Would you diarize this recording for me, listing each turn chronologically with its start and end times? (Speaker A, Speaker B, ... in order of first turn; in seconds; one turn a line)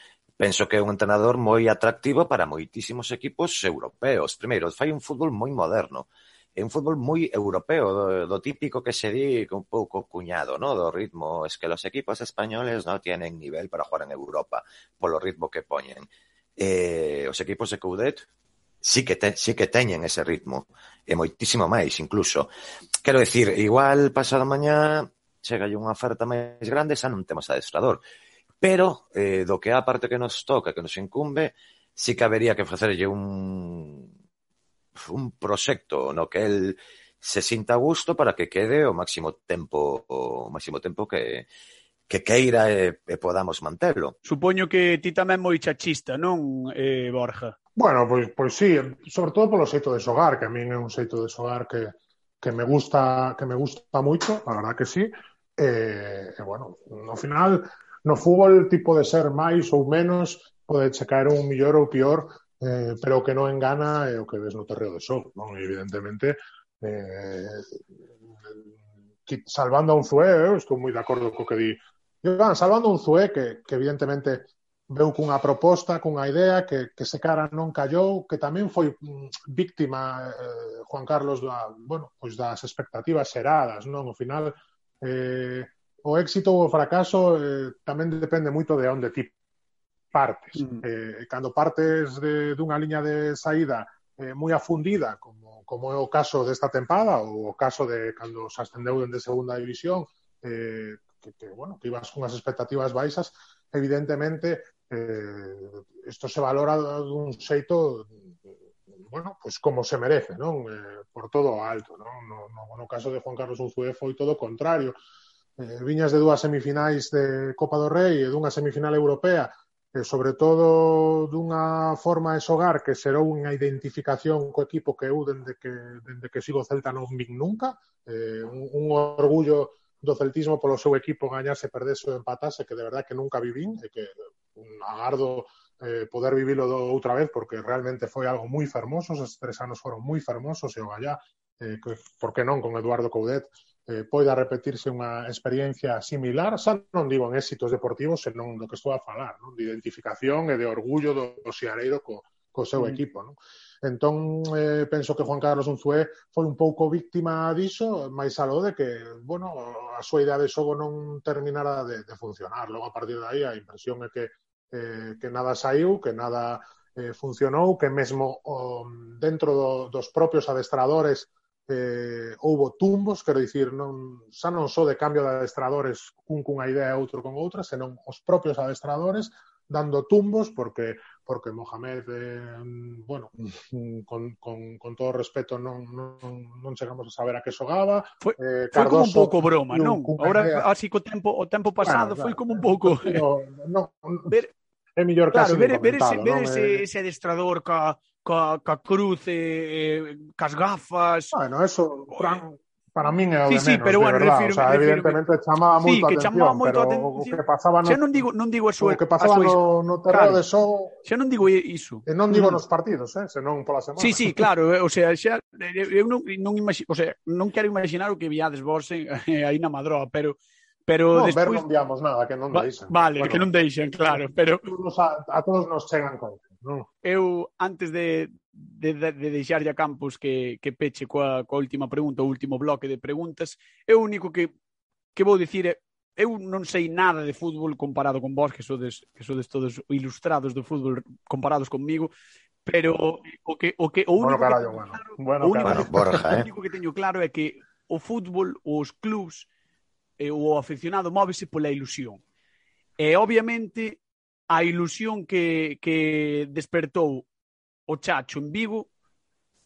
Speaker A: 0.4-18.2
Speaker A: 18.8-22.5
Speaker A: 23.0-28.0
Speaker A: 28.6-34.1
Speaker A: 35.0-41.5
Speaker A: 42.1-44.2
Speaker B: 44.2-47.5
Speaker C: 47.8-67.7
Speaker C: 69.3-89.3
Speaker C: 90.1-108.3
Speaker B: 90.6-90.8
Speaker C: 109.0-115.0
Speaker C: 115.6-190.7
Speaker B: 188.2-193.2
Speaker C: 191.8-194.4
Speaker C: 195.0-196.9
Speaker B: 195.3-201.3
Speaker C: 201.3-208.2
Speaker B: 202.1-202.4
Speaker B: 203.5-205.2
Speaker B: 205.8-210.4
Speaker C: 208.8-211.0
Speaker B: 211.0-212.6
Speaker C: 212.1-214.5
Speaker B: 214.0-221.7
Speaker C: 221.1-223.5
Speaker B: 222.5-224.7
Speaker C: 224.1-226.9
Speaker B: 227.0-234.5
Speaker B: 235.2-242.1
Speaker B: 242.7-249.5
Speaker C: 244.2-245.9
Speaker A: 245.6-246.5
Speaker B: 250.2-252.2
Speaker B: 253.0-254.0
Speaker B: 254.5-257.3
Speaker B: 257.9-258.9